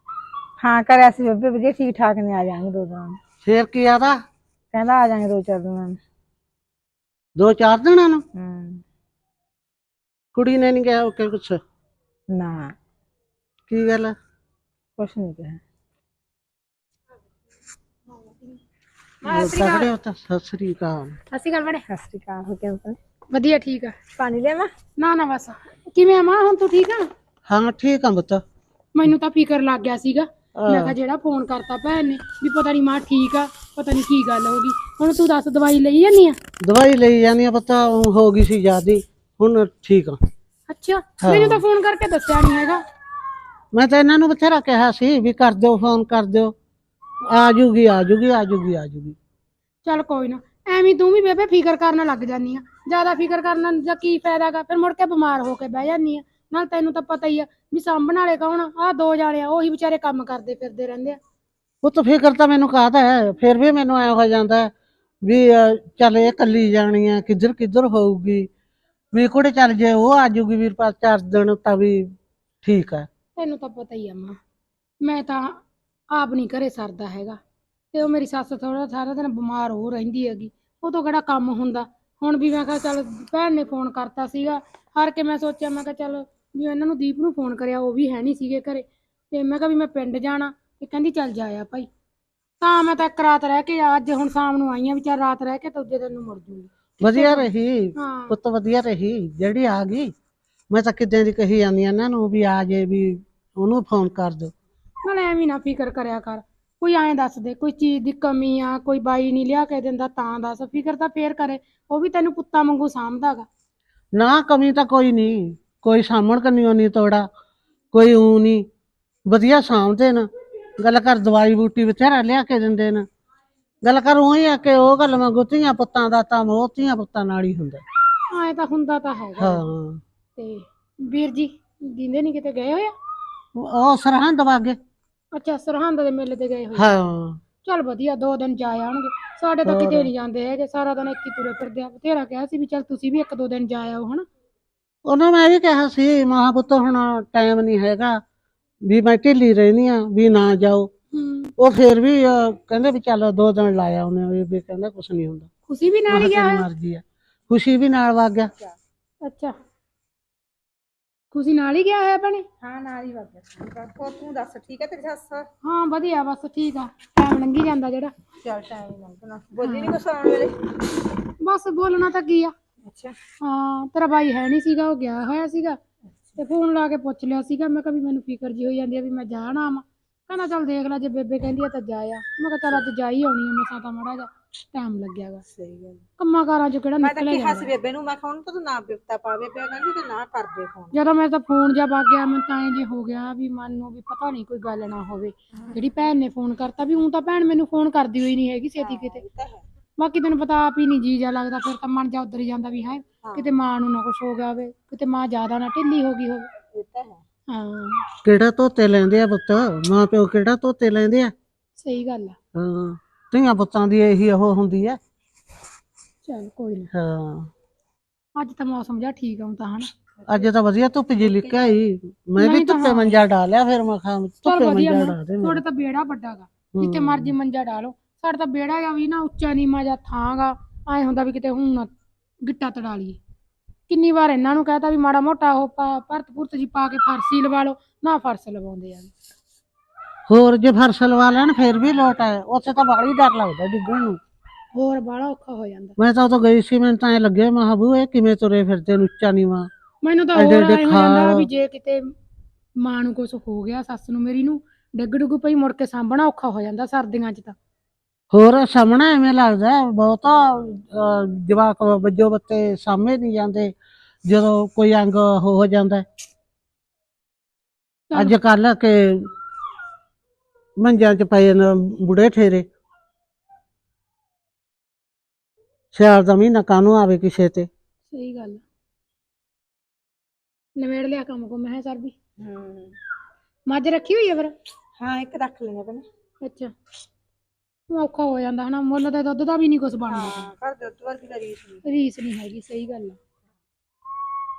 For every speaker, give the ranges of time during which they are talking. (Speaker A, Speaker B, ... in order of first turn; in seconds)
Speaker A: 0.6-3.2, 4.7-6.0, 8.3-8.8, 12.3-12.8, 15.0-15.6, 21.9-23.0, 24.2-24.7, 162.6-165.5, 168.4-170.6, 172.9-173.2, 185.5-186.0, 187.0-190.9, 198.8-199.6, 203.2-203.5, 206.7-207.2, 221.4-221.7, 282.4-282.9, 285.0-286.0, 290.1-291.8
Speaker B: 3.4-4.2, 7.4-8.2, 10.3-11.6, 13.7-14.1, 19.3-21.2, 27.5-28.4, 30.6-30.9, 36.6-40.2, 41.2-41.6, 43.7-46.5, 47.3-49.2, 61.8-64.7, 65.2-68.5, 69.1-72.0, 72.6-73.1, 97.0-100.1, 100.7-104.5, 114.2-117.2, 117.9-118.6, 119.3-120.3, 120.8-123.0, 123.8-127.8, 129.4-130.0, 133.6-134.8, 136.8-137.4, 139.7-140.1, 145.1-148.2, 148.9-150.9, 151.6-155.5, 156.1-158.5, 208.2-211.3, 212.6-215.0, 216.9-217.5, 220.3-225.6, 226.8-227.3, 240.3-244.2, 246.0-249.7, 250.4-251.5, 258.3-263.7, 264.2-266.1, 268.1-269.3, 270.8-272.7, 275.9-277.7
Speaker C: 19.2-19.9, 21.3-21.8, 23.3-24.0, 25.0-27.1, 28.9-36.4, 40.7-42.8, 49.8-61.2, 73.4-74.4, 75.0-75.6, 76.1-77.4, 77.9-91.9, 92.6-98.4, 105.0-113.5, 128.3-129.6, 130.4-132.9, 135.3-136.9, 137.6-144.2, 151.1-151.5, 155.7-156.7, 159.2-159.6, 161.3-162.4, 165.6-168.1, 169.6-170.0, 171.4-172.5, 173.4-175.8, 176.4-185.4, 186.2-187.7, 190.9-199.2, 200.0-206.5, 207.5-208.0, 211.8-212.4, 216.2-216.9, 218.4-219.9, 222.4-223.2, 224.4-231.9, 232.4-233.2, 233.9-239.1, 244.7-246.0, 250.0-252.1, 252.8-257.6, 268.1-268.4, 278.1-278.6, 280.8-282.1, 283.7-284.5, 286.4-286.7, 287.9-290.5, 291.8-293.2